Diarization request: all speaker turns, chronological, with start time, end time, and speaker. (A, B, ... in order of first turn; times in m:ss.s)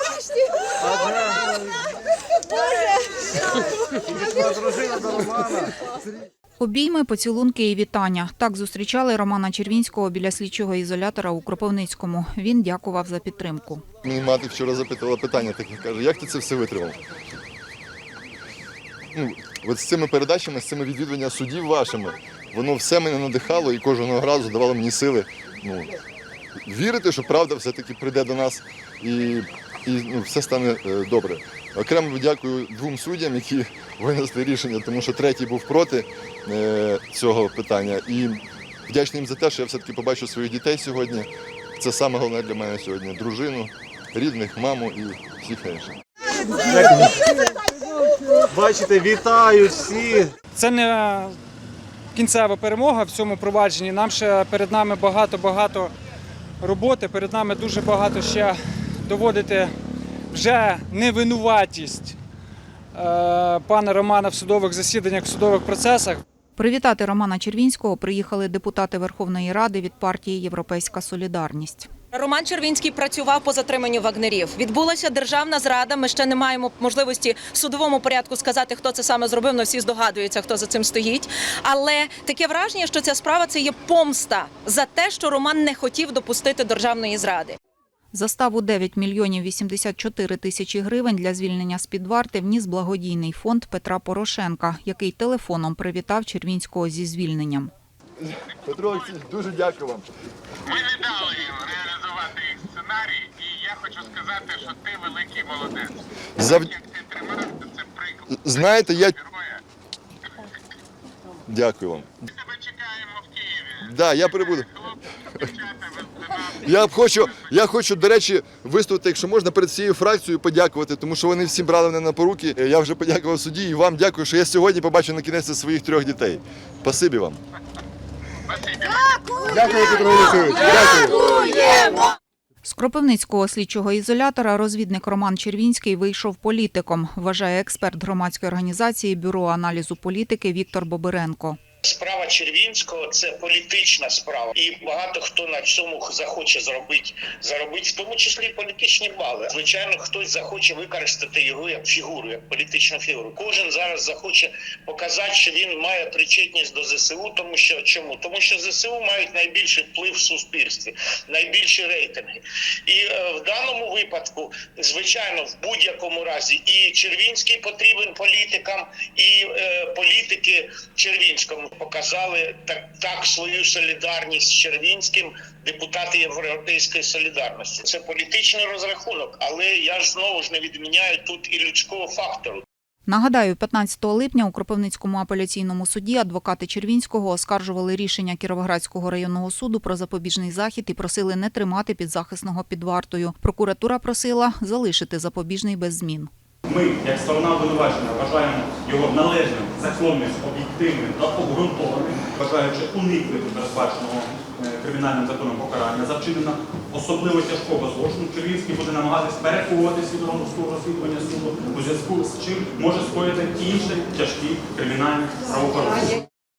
0:00.8-0:01.4 A
0:04.0-0:05.7 A
0:06.6-0:13.8 B
0:14.0-0:17.0 C
0:19.1-0:25.9 C
0:26.6-0:46.0 C
0:46.7-0:47.1 A
0:48.3-0:50.3 A
0:50.5-0:51.4 D
0:52.1-0:55.9 D
0:56.6-0:59.7 D
1:00.3-1:02.2 D
1:02.9-1:06.2 D
1:06.6-1:11.9 B
1:12.1-1:27.6 E
1:28.1-1:37.7 B
1:38.2-1:40.0 C
1:40.7-1:46.0 F
1:46.4-1:46.7 C
1:46.7-1:48.2 F
1:48.3-1:49.2 C
1:49.2-1:49.6 F
1:51.5-1:52.2 C
1:52.4-1:53.8 F
1:53.8-1:54.7 C
1:55.5-1:56.5 F
1:56.5-2:07.4 C
2:09.6-2:11.2 C
2:12.6-2:21.6 B
2:21.8-3:02.6 G
3:03.1-3:16.3 B
3:16.7-3:36.2 H